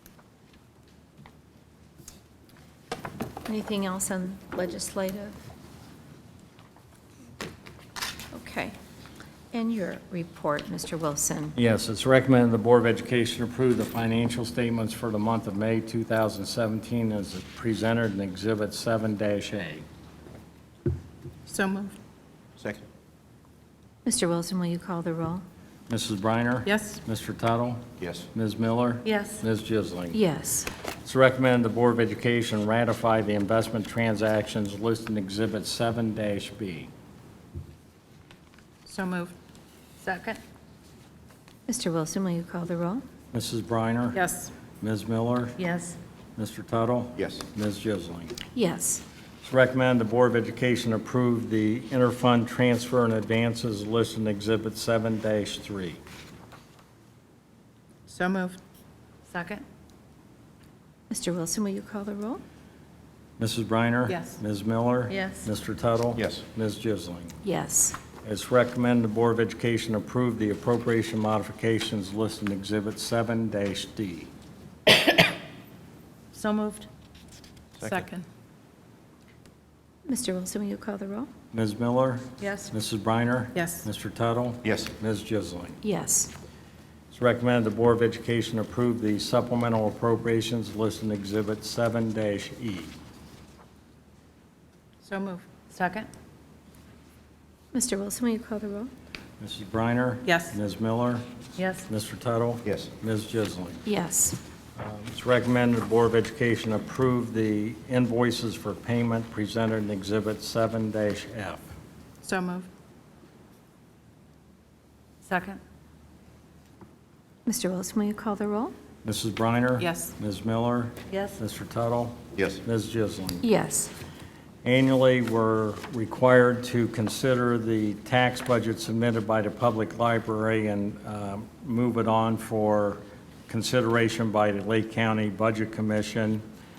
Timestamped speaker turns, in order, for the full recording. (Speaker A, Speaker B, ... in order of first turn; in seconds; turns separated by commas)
Speaker A: 3.5-5.4, Speaker A: 8.3-8.8, Speaker A: 9.5-11.6, Speaker B: 11.6-19.8, Speaker C: 21.5-21.9, Speaker D: 22.6-22.9, Speaker A: 24.1-25.4, Speaker B: 25.9-30.2, Speaker C: 26.7-27.0, Speaker D: 28.0-28.3, Speaker C: 29.1-29.4, Speaker A: 30.1-30.7, Speaker B: 31.0-36.9, Speaker C: 38.9-39.3, Speaker C: 40.0-40.4, Speaker A: 41.7-43.0, Speaker B: 43.3-44.2, Speaker C: 44.1-44.5, Speaker B: 44.8-45.6, Speaker C: 45.6-46.0, Speaker B: 46.4-48.4, Speaker D: 47.2-47.4, Speaker A: 48.5-49.0, Speaker B: 49.4-56.0, Speaker C: 58.1-58.6, Speaker C: 59.3-59.6, Speaker A: 61.1-62.4, Speaker B: 63.4-67.4, Speaker C: 64.1-64.4, Speaker C: 65.1-65.5, Speaker D: 66.2-66.4, Speaker A: 67.4-68.0, Speaker B: 68.2-74.3, Speaker C: 76.3-76.9, Speaker D: 77.8-78.0, Speaker C: 77.8-78.2, Speaker A: 80.1-81.3, Speaker B: 81.5-85.8, Speaker C: 82.4-82.7, Speaker C: 83.5-83.9, Speaker D: 84.6-84.9, Speaker A: 85.8-86.3, Speaker B: 87.1-92.9, Speaker C: 95.0-96.1, Speaker A: 97.7-98.9, Speaker B: 99.4-101.2, Speaker C: 100.3-100.5, Speaker C: 101.6-101.9, Speaker B: 101.9-103.9, Speaker D: 102.7-102.9, Speaker A: 103.9-104.4, Speaker B: 104.8-111.6, Speaker C: 112.2-112.7, Speaker C: 115.2-115.6, Speaker A: 117.5-118.7, Speaker B: 119.0-123.5, Speaker C: 119.8-120.1, Speaker C: 121.1-121.4, Speaker D: 122.3-122.6, Speaker A: 123.4-123.9, Speaker B: 124.6-136.4